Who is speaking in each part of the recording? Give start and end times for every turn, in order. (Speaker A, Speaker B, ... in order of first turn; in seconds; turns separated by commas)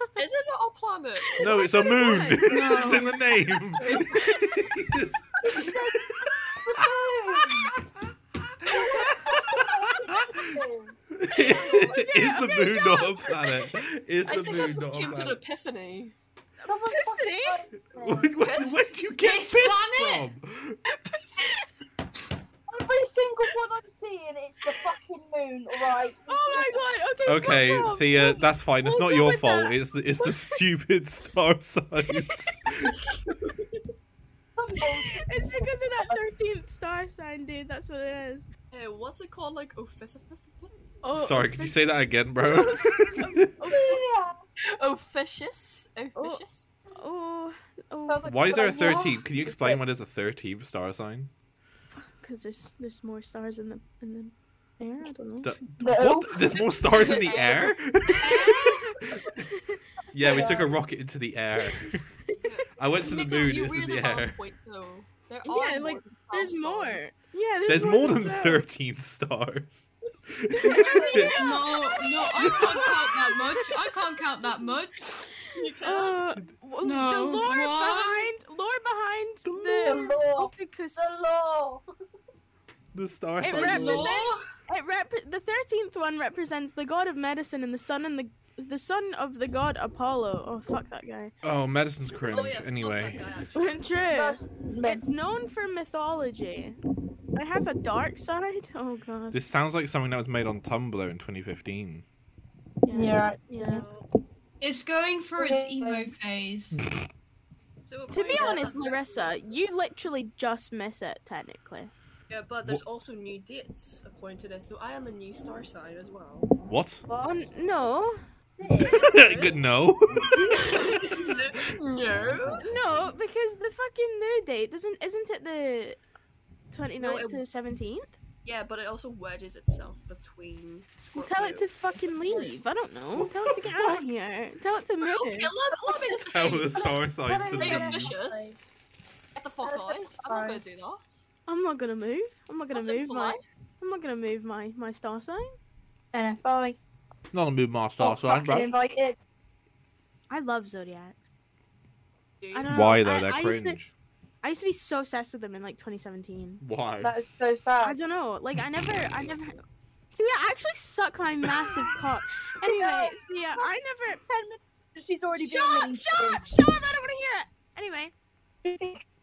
Speaker A: 0.2-2.4, Speaker B: 1.3-2.5, Speaker C: 1.4-8.0, Speaker D: 2.5-3.1, Speaker B: 3.9-4.7, Speaker E: 5.4-7.7, Speaker C: 8.7-10.4, Speaker E: 8.7-11.0, Speaker C: 11.1-15.4, Speaker A: 11.4-12.2, Speaker B: 11.5-13.3, Speaker A: 14.3-16.1, Speaker B: 16.6-17.6, Speaker E: 16.7-18.3, Speaker C: 17.9-20.8, Speaker A: 18.4-19.0, Speaker D: 19.2-20.3, Speaker A: 20.9-21.6, Speaker E: 22.7-26.8, Speaker B: 26.2-29.7, Speaker C: 27.3-33.0, Speaker A: 33.2-33.6, Speaker E: 34.6-36.1, Speaker B: 34.8-38.5, Speaker A: 38.7-40.9, Speaker B: 41.0-41.8, Speaker C: 41.2-43.5, Speaker B: 42.4-44.0, Speaker E: 43.7-44.4, Speaker A: 44.7-46.6, Speaker B: 46.2-49.0, Speaker E: 48.1-49.8, Speaker C: 48.2-51.3, Speaker B: 52.1-55.5, Speaker C: 55.4-58.4, Speaker E: 55.8-56.4, Speaker A: 56.6-57.8, Speaker B: 58.1-59.0, Speaker D: 58.2-58.9, Speaker B: 59.6-60.7, Speaker C: 60.1-62.1, Speaker E: 60.2-60.7, Speaker A: 62.4-67.0, Speaker C: 62.8-64.4, Speaker B: 65.5-68.7, Speaker C: 67.7-71.4, Speaker B: 70.5-74.7, Speaker E: 70.7-71.3, Speaker A: 70.7-71.3, Speaker D: 71.3-75.1, Speaker C: 72.4-72.7, Speaker A: 72.5-72.8, Speaker A: 75.5-76.2, Speaker B: 75.8-81.1, Speaker D: 76.8-78.3, Speaker C: 79.5-80.0, Speaker E: 79.8-81.8, Speaker C: 82.9-84.1, Speaker B: 83.4-91.3, Speaker D: 83.5-84.5, Speaker C: 91.4-93.2, Speaker A: 92.1-93.9, Speaker B: 93.6-96.8, Speaker E: 94.1-95.0, Speaker B: 97.3-99.4, Speaker C: 99.3-102.0, Speaker B: 102.8-103.8, Speaker E: 102.9-103.9, Speaker A: 103.6-104.1, Speaker D: 104.6-106.8, Speaker E: 105.4-106.1, Speaker A: 107.8-109.4, Speaker B: 108.1-111.9, Speaker E: 108.3-108.6, Speaker A: 112.3-116.5, Speaker C: 116.6-117.1, Speaker B: 117.1-118.2, Speaker E: 118.6-119.4, Speaker A: 118.8-119.6, Speaker C: 118.8-120.7, Speaker B: 120.3-121.5, Speaker A: 121.1-122.7, Speaker C: 122.1-123.0, Speaker B: 122.6-126.0, Speaker B: 126.7-128.2, Speaker A: 127.0-127.4, Speaker A: 128.4-132.6, Speaker B: 131.0-135.5, Speaker C: 133.1-133.8, Speaker A: 135.0-137.0, Speaker C: 136.3-138.2, Speaker E: 136.7-138.6, Speaker A: 137.5-138.6, Speaker A: 139.4-141.2, Speaker E: 139.6-140.6, Speaker B: 141.5-145.6, Speaker A: 142.7-143.4, Speaker E: 146.1-146.8, Speaker C: 147.3-148.7, Speaker E: 148.0-149.2, Speaker B: 150.3-151.2, Speaker A: 152.4-152.7, Speaker B: 152.5-153.8, Speaker C: 152.7-153.9, Speaker B: 154.4-156.6, Speaker C: 156.6-157.2, Speaker E: 157.0-158.0, Speaker B: 157.8-159.6, Speaker B: 160.1-164.2, Speaker E: 162.6-163.7, Speaker E: 164.2-166.5, Speaker B: 165.3-168.1, Speaker E: 168.6-169.0